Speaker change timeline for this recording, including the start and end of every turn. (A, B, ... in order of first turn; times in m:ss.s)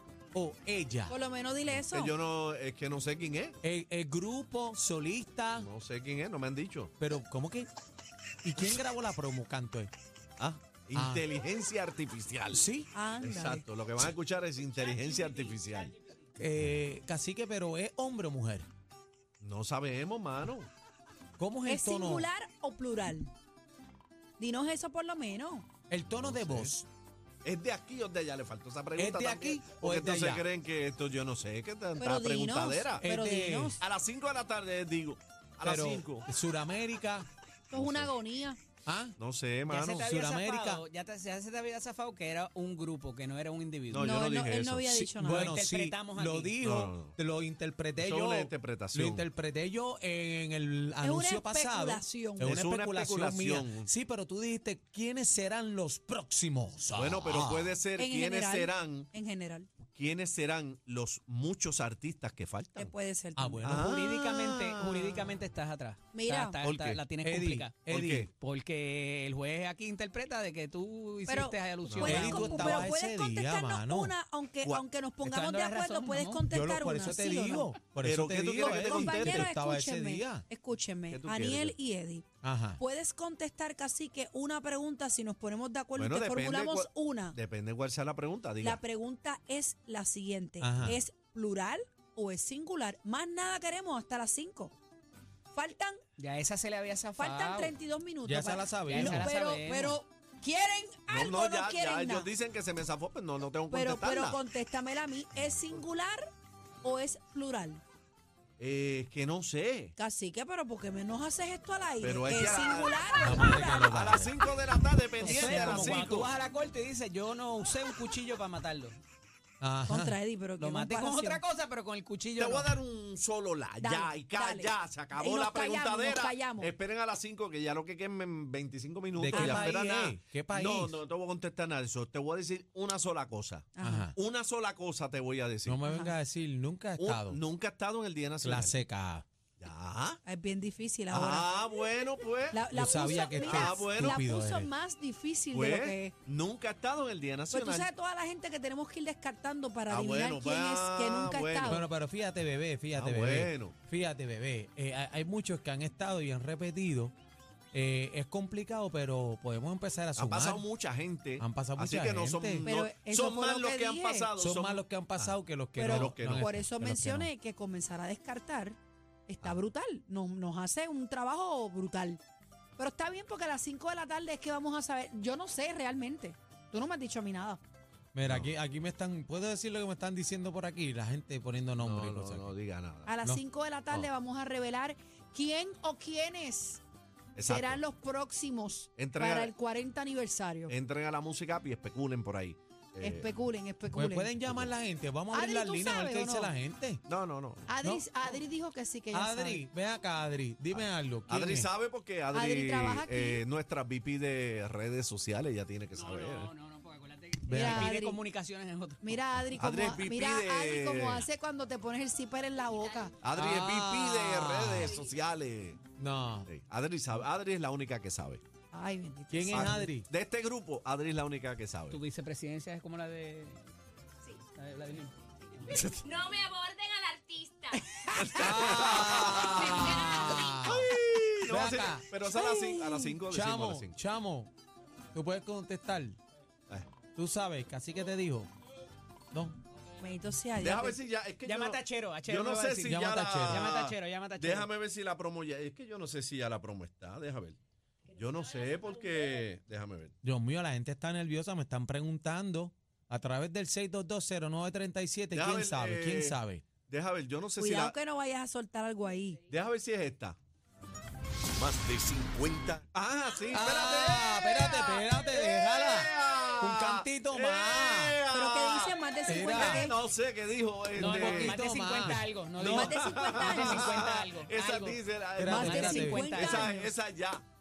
0:00.3-0:01.2 A
0:01.1-0:02.1 B
0:01.7-0:03.6 C
0:03.6-0:05.7 A
0:05.6-0:06.9 C
0:07.0-0:07.7 A
0:08.4-0:09.9 A
0:10.4-0:12.6 C
0:10.9-0:11.2 A
0:12.5-0:12.9 A
0:12.9-0:13.6 B
0:13.2-0:15.9 C
0:16.4-0:18.7 A
0:19.4-0:20.7 C
0:21.4-0:22.3 A
0:21.6-0:23.3 B
0:24.4-0:25.7 B
0:25.9-0:26.8 A
0:26.1-0:26.8 C
0:27.4-0:33.0 C
0:29.0-0:30.4 A
0:32.0-0:33.8 B
0:33.0-0:33.8 A
0:33.8-0:36.2 C
0:35.6-0:37.3 A
0:37.7-0:38.6 B
0:37.7-0:38.1 C
0:38.8-0:39.1 A
0:39.2-0:40.0 C
0:39.7-0:44.2 D
0:40.0-0:40.8 A
0:43.9-0:45.0 C
0:44.0-0:45.6 B
0:44.9-0:57.7 A
0:45.2-0:46.5 D
0:46.6-0:47.2 C
0:48.0-0:49.2 C
0:51.0-0:52.5 B
0:52.4-0:53.9 C
0:56.9-0:59.1 C
0:58.0-0:59.7 B
0:59.9-1:02.9 C
1:02.8-1:03.7 B
1:03.4-1:03.9 A
1:03.6-1:05.4 C
1:03.7-1:12.9 D
1:06.1-1:06.6 B
1:06.6-1:07.0 C
1:07.2-1:08.3 A
1:07.9-1:08.3 C
1:11.3-1:17.7 B
1:11.8-1:12.5 C
1:12.0-1:14.1 A
1:15.2-1:16.4 D
1:16.5-1:20.4 A
1:18.0-1:19.5 C
1:18.6-1:22.2 B
1:21.1-1:21.8 C
1:22.4-1:22.8 A
1:22.8-1:27.4 B
1:26.0-1:28.8 C
1:28.6-1:34.7 B
1:30.6-1:31.0 A
1:35.5-1:36.0 B
1:36.2-1:37.7 D
1:37.2-1:42.3 B
1:38.2-1:39.3 A
1:38.9-1:40.0 D
1:41.1-1:44.4 C
1:43.7-1:46.3 B
1:46.8-1:47.8 B
1:48.6-1:49.9 C
1:50.0-1:53.9 B
1:52.0-1:56.3 C
1:53.2-1:54.4 A
1:55.2-1:59.0 D
1:55.2-1:56.2 A
1:59.6-2:00.2 A
1:59.9-2:01.4 B
2:00.6-2:02.8 D
2:02.4-2:15.8 C
2:03.8-2:06.7 B
2:09.1-2:11.0 A
2:09.3-2:09.8 B
2:13.8-2:14.1 B
2:13.8-2:14.1 A
2:15.6-2:17.4 A
2:15.8-2:16.1 B
2:17.0-2:18.8 C
2:18.4-2:19.2 A
2:19.6-2:20.2 C
2:20.2-2:21.5 B
2:21.1-2:24.2 C
2:22.5-2:26.1 B
2:22.7-2:24.7 A
2:25.5-2:27.9 C
2:27.5-2:31.8 B
2:29.9-2:31.8 C
2:31.6-2:37.1 A
2:32.9-2:33.7 C
2:37.7-2:40.6 A
2:40.2-2:46.5 C
2:41.4-2:42.6 A
2:42.6-2:44.3 B
2:44.4-2:47.3 A
2:45.8-2:48.8 B
2:49.3-2:52.2 B
2:52.8-2:57.6 B
2:58.1-3:02.5 A
2:58.2-2:58.5 C
3:01.8-3:03.1 C
3:03.0-3:06.8 B
3:07.3-3:07.8 C
3:07.5-3:10.7 B
3:09.0-3:09.5 C
3:10.7-3:13.3 C
3:13.0-3:14.3 B
3:13.9-3:17.0 A
3:14.4-3:14.7 C
3:15.3-3:16.5 B
3:17.1-3:17.7 C
3:17.7-3:19.6 B
3:17.8-3:18.4 A
3:19.1-3:21.7 A
3:20.7-3:26.5 C
3:22.3-3:23.4 B
3:25.9-3:29.2 D
3:27.5-3:27.9 A
3:27.5-3:28.2 B
3:29.0-3:33.2 B
3:29.6-3:31.2 C
3:33.2-3:35.8 C
3:33.3-3:35.0 A
3:36.0-3:36.5 A
3:36.5-3:38.4 C
3:38.7-3:39.8 B
3:39.3-3:40.1 A
3:39.5-3:42.0 C
3:41.9-3:43.6 D
3:44.4-3:46.0 D
3:45.7-3:46.2 C
3:46.0-3:47.8 E
3:48.2-3:54.0 C
3:48.3-3:52.1 A
3:49.2-3:50.6 E
3:52.3-3:53.2 B
3:53.3-3:54.5 A
3:55.1-3:56.2 A
3:57.1-3:58.5 A
3:59.3-3:59.6 A
4:00.0-4:01.0 B
4:00.6-4:07.6 C
4:01.4-4:04.7 D
4:02.9-4:03.7 A
4:08.1-4:10.1 C
4:10.2-4:16.6 A
4:15.3-4:17.9 C
4:17.6-4:19.4 B
4:19.5-4:20.4 C
4:21.5-4:31.6 C
4:23.5-4:28.2 A
4:28.3-4:29.9 B
4:29.2-4:29.9 A
4:31.0-4:33.1 A
4:31.0-4:36.9 D
4:32.6-4:34.0 B
4:32.6-4:37.4 C
4:35.4-4:36.4 A
4:35.5-4:36.8 B